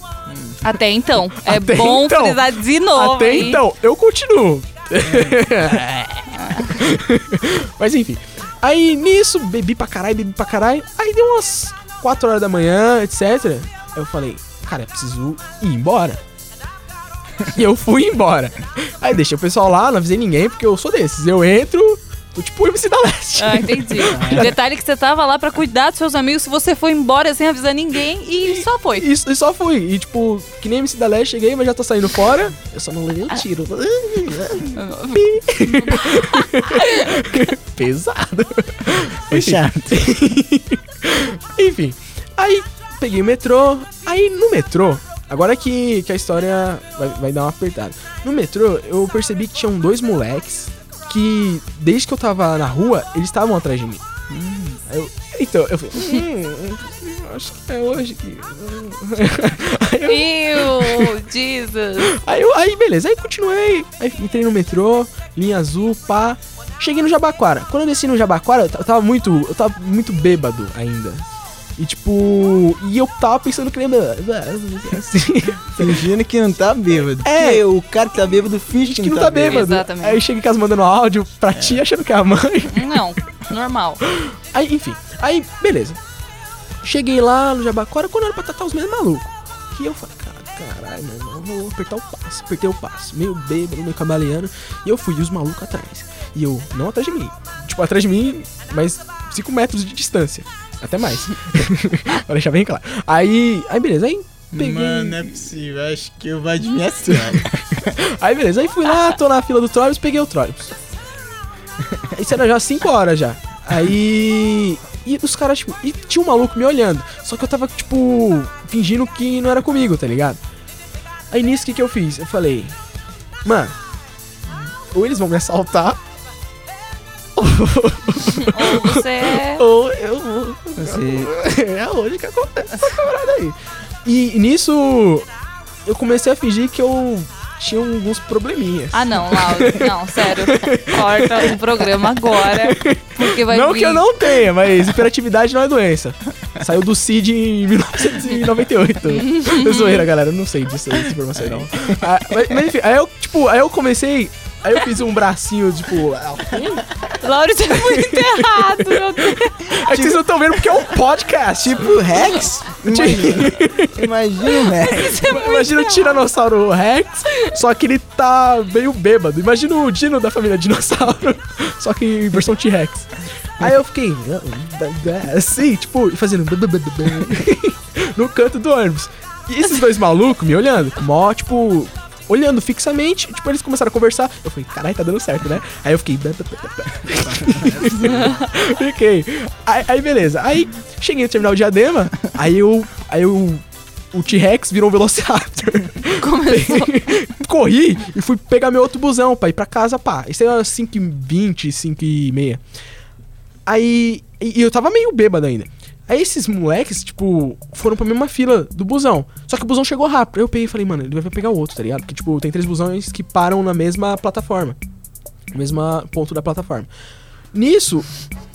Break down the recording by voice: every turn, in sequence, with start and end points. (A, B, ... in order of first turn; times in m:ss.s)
0:00.3-0:00.6 A
0:00.6-0:03.6 B
0:01.5-0:16.2 C
0:05.0-0:05.4 A
0:17.5-0:24.5 C
0:23.4-0:29.1 B
0:24.1-0:24.5 A
0:29.0-0:54.0 C
0:34.7-0:37.1 B
0:39.3-0:40.0 A
0:54.3-0:54.8 A
0:54.9-1:01.1 C
1:00.1-1:02.1 B
1:02.0-1:11.2 C
1:11.8-1:16.0 C
1:15.8-1:19.7 A
1:17.2-1:17.6 C
1:18.9-1:22.9 C
1:19.5-1:20.2 B
1:22.7-1:24.0 B
1:24.1-1:26.0 C
1:26.8-1:45.2 C
1:44.5-1:47.9 A
1:47.8-1:50.7 C
1:52.1-2:00.4 C
2:01.3-2:02.8 C
2:03.4-2:03.7 C
2:04.9-2:06.0 C
2:07.4-2:15.3 C
2:08.4-2:09.6 B
2:10.8-2:11.3 A
2:15.9-2:36.9 C
2:18.9-2:24.1 B
2:29.1-2:30.1 B
2:37.2-2:39.7 B
2:37.8-2:41.9 C
2:39.9-2:40.3 A
2:41.6-2:45.2 A
2:42.8-2:44.1 C
2:44.8-2:46.2 B
2:45.2-3:13.6 C
3:07.2-3:08.3 A
3:14.1-3:22.6 C
3:16.2-3:16.9 B
3:23.7-3:34.8 C
3:35.5-3:36.9 C
3:37.5-3:38.1 C